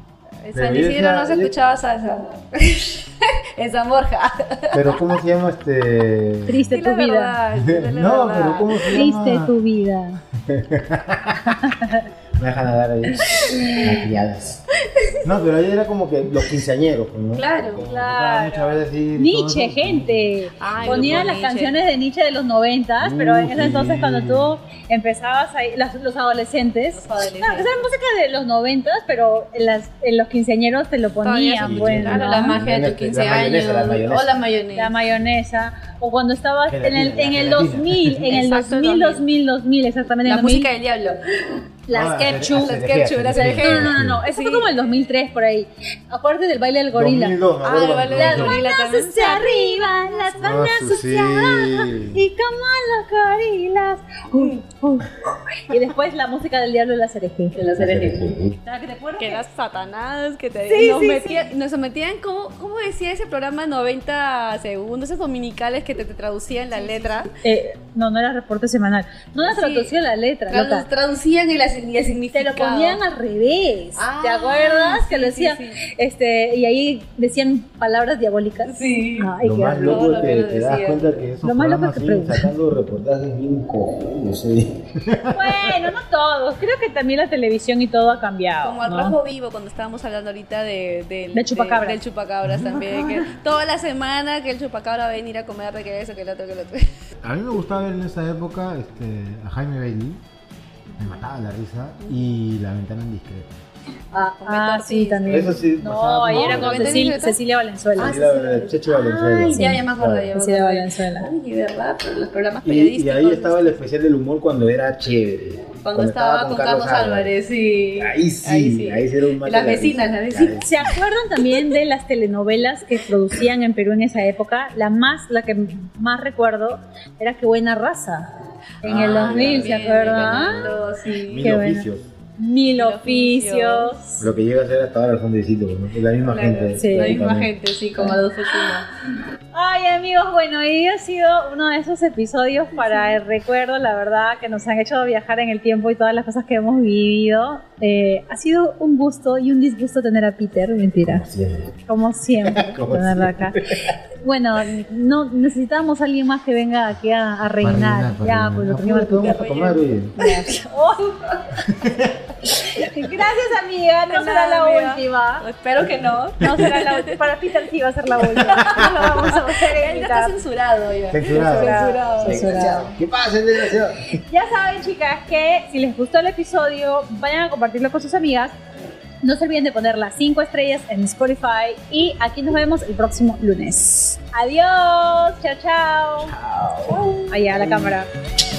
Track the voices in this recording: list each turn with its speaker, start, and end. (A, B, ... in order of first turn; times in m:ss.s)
0:00.4-0:05.0 A
0:00.5-0:01.5 B
0:04.7-0:06.8 B
0:06.5-0:07.4 C
0:06.7-0:09.0 A
0:07.5-0:09.5 B
0:08.9-0:10.2 C
0:10.4-0:14.7 B
0:11.5-0:12.0 C
0:13.1-0:13.9 A
0:14.9-0:15.3 A
0:15.2-0:21.3 B
0:17.4-0:17.8 A
0:17.8-0:32.6 C
0:20.6-0:21.8 A
0:23.0-0:24.6 B
0:26.9-0:27.9 A
0:31.2-0:35.0 A
0:31.6-0:34.4 B
0:34.8-0:40.7 C
0:36.7-0:38.4 B
0:38.3-0:39.2 A
0:40.2-0:41.2 A
0:41.9-0:42.7 C
0:41.9-0:44.2 B
0:42.4-0:44.7 A
0:43.3-0:47.4 C
0:46.9-0:48.6 B
0:47.6-0:50.4 A
0:48.1-0:55.1 C
0:50.4-0:52.2 B
0:55.7-0:57.6 C
0:57.5-0:58.4 A
0:57.8-0:58.6 B
0:58.6-0:59.4 C
0:59.2-1:07.3 A
1:00.7-1:01.5 C
1:06.7-1:10.9 C
1:09.4-1:09.9 A
1:10.5-1:13.0 A
1:12.3-1:20.1 C
1:14.0-1:15.8 A
1:18.7-1:19.3 A
1:19.4-1:25.9 B
1:19.8-1:21.3 A
1:21.4-1:22.5 C
1:25.3-1:29.2 C
1:28.6-1:36.9 A
1:31.3-1:32.0 C
1:32.4-1:33.3 B
1:37.2-1:40.2 B
1:41.0-1:43.5 B
1:44.1-1:48.2 C
1:44.4-1:45.6 A
1:45.3-1:47.1 B
1:46.3-1:47.4 A
1:48.0-1:50.3 B
1:48.0-1:53.8 A
1:49.5-1:51.3 C
1:52.6-1:57.3 B
1:55.8-2:00.6 A
1:58.0-2:01.0 B
2:00.6-2:08.3 C
2:08.8-2:10.7 C
2:08.8-2:12.1 B
2:08.8-2:11.6 A
2:11.4-2:11.9 C
2:12.4-2:14.2 C
2:12.7-2:14.0 A
2:14.2-2:17.5 B
2:16.2-2:18.9 A
2:16.8-2:17.2 C
2:18.0-2:18.7 C
2:19.5-2:31.3 C
2:22.8-2:23.2 A
2:31.0-2:31.8 B
2:31.9-2:41.4 C
2:32.4-2:34.0 B
2:37.6-2:40.2 B
2:39.2-2:40.4 A
2:41.6-2:42.2 B
2:42.6-2:45.4 C
2:44.1-2:47.1 A
2:46.4-2:50.4 C
2:48.3-2:52.9 A
2:48.6-2:49.0 B
2:51.1-2:54.2 B
2:51.3-2:52.9 C
2:54.2-2:58.5 C
2:59.2-3:06.3 C
3:06.2-3:08.0 B
3:07.3-3:08.1 C